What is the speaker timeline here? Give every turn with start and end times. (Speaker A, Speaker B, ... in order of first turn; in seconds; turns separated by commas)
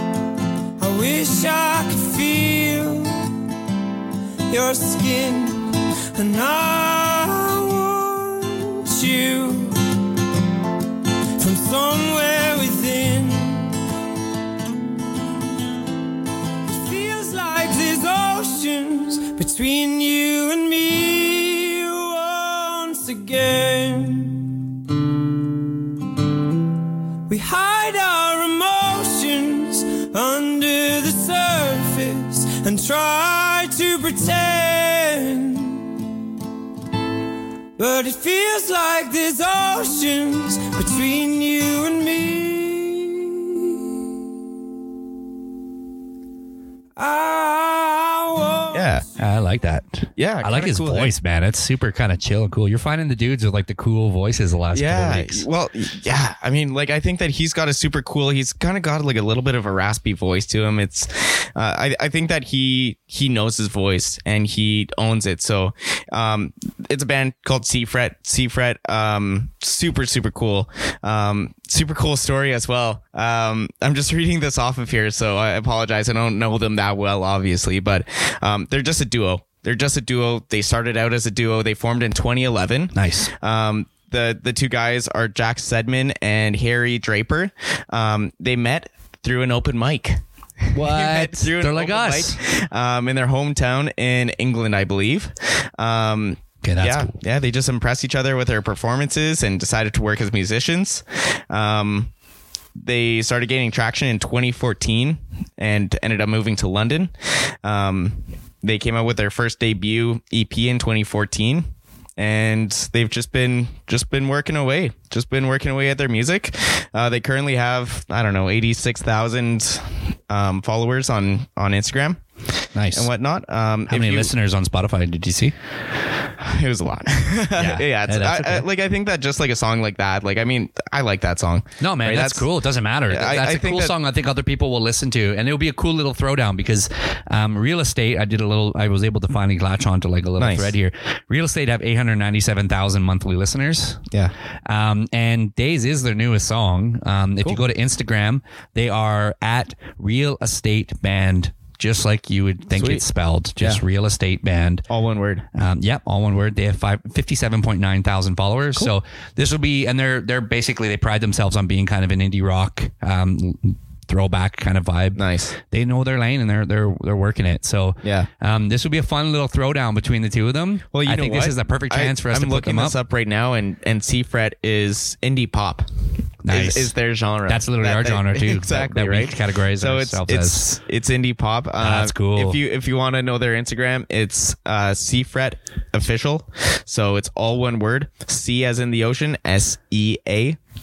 Speaker A: 0.8-3.3, Speaker A: 4.5-9.8, Speaker A: 11.4-13.8, Speaker A: 16.6-24.6, Speaker A: 27.3-36.0, Speaker A: 37.8-43.8, Speaker A: 47.0-49.0, Speaker B: 48.7-49.0, Speaker C: 49.2-55.5, Speaker B: 50.2-51.1, Speaker B: 54.7-102.1, Speaker C: 82.9-83.3, Speaker C: 90.7-92.4, Speaker C: 96.6-97.1, Speaker B: 102.8-107.1, Speaker B: 107.6-122.2, Speaker C: 122.7-123.1, Speaker B: 122.9-124.3, Speaker C: 123.9-125.5, Speaker B: 126.4-132.5, Speaker C: 127.5-128.7, Speaker C: 131.8-144.0, Speaker B: 133.1-133.9, Speaker B: 140.4-140.7, Speaker C: 144.7-154.8, Speaker B: 152.8-153.0, Speaker B: 154.9-155.4, Speaker C: 155.5-172.9, Speaker B: 165.2-165.5, Speaker B: 168.0-168.3, Speaker B: 170.9-175.9, Speaker C: 176.4-176.9, Speaker B: 176.5-190.6, Speaker C: 177.5-180.7, Speaker C: 181.8-182.6